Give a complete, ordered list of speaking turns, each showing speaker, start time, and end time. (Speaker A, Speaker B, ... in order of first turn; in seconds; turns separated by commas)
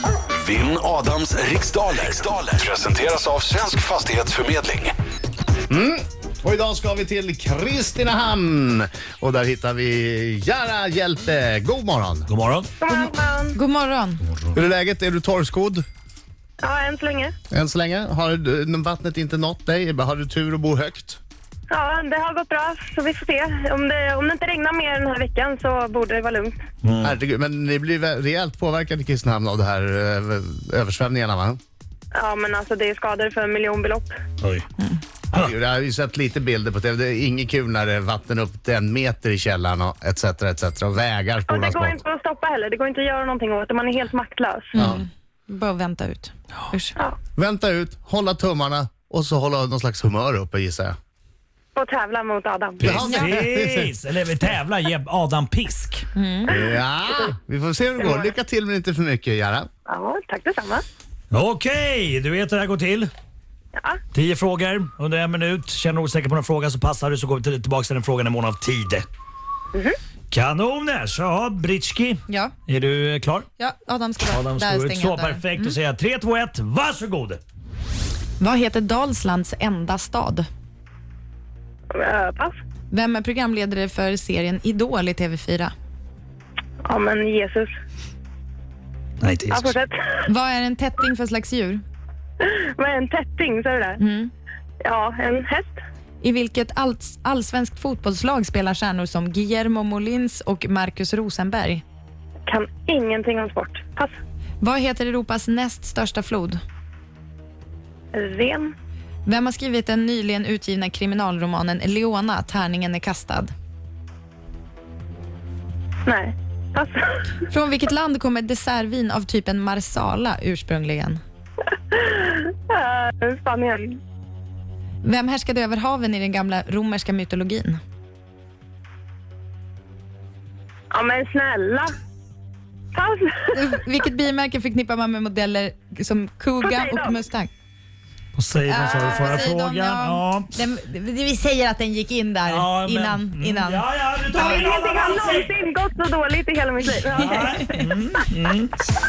Speaker A: 0.3-5.0, Speaker B: 5.7-12.3, Speaker C: 12.3-12.7, Speaker D: 12.8-13.6, Speaker E: 12.9-14.2, Speaker B: 14.5-15.8, Speaker D: 16.6-17.3, Speaker B: 17.5-21.2, Speaker D: 21.7-26.5, Speaker C: 26.8-27.2, Speaker B: 27.0-31.6, Speaker D: 32.1-34.2, Speaker B: 35.3-42.0, Speaker D: 41.5-44.7, Speaker E: 44.7-47.0, Speaker B: 44.8-45.0, Speaker B: 47.4-51.0, Speaker D: 51.8-53.0, Speaker B: 52.8-53.9, Speaker C: 52.8-56.1, Speaker E: 53.0-53.4, Speaker E: 56.1-56.5, Speaker B: 56.5-59.7, Speaker D: 58.0-58.3, Speaker D: 59.9-60.8, Speaker C: 61.3-63.1, Speaker D: 63.8-64.0, Speaker C: 64.1-69.1, Speaker C: 70.3-73.5, Speaker E: 72.3-72.5, Speaker E: 73.6-75.8, Speaker C: 74.2-77.4, Speaker E: 78.4-80.5, Speaker D: 81.9-82.5, Speaker E: 82.9-85.7, Speaker D: 86.8-87.7, Speaker C: 89.2-89.7, Speaker D: 89.5-90.3, Speaker E: 90.3-91.8, Speaker D: 92.4-94.0, Speaker E: 94.0-94.3, Speaker D: 94.8-95.7, Speaker E: 96.2-101.8, Speaker D: 102.5-104.1, Speaker E: 104.6-106.6, Speaker D: 108.1-108.7, Speaker E: 109.2-113.5, Speaker D: 116.1-117.0, Speaker E: 117.5-121.2, Speaker D: 121.9-124.0, Speaker E: 125.0-127.8, Speaker D: 130.9-131.9, Speaker D: 132.9-133.5, Speaker E: 133.5-137.5, Speaker D: 136.6-137.2, Speaker C: 138.3-140.5, Speaker E: 138.7-144.7, Speaker C: 142.5-145.5, Speaker D: 144.4-147.7, Speaker E: 146.9-147.9, Speaker C: 147.1-148.8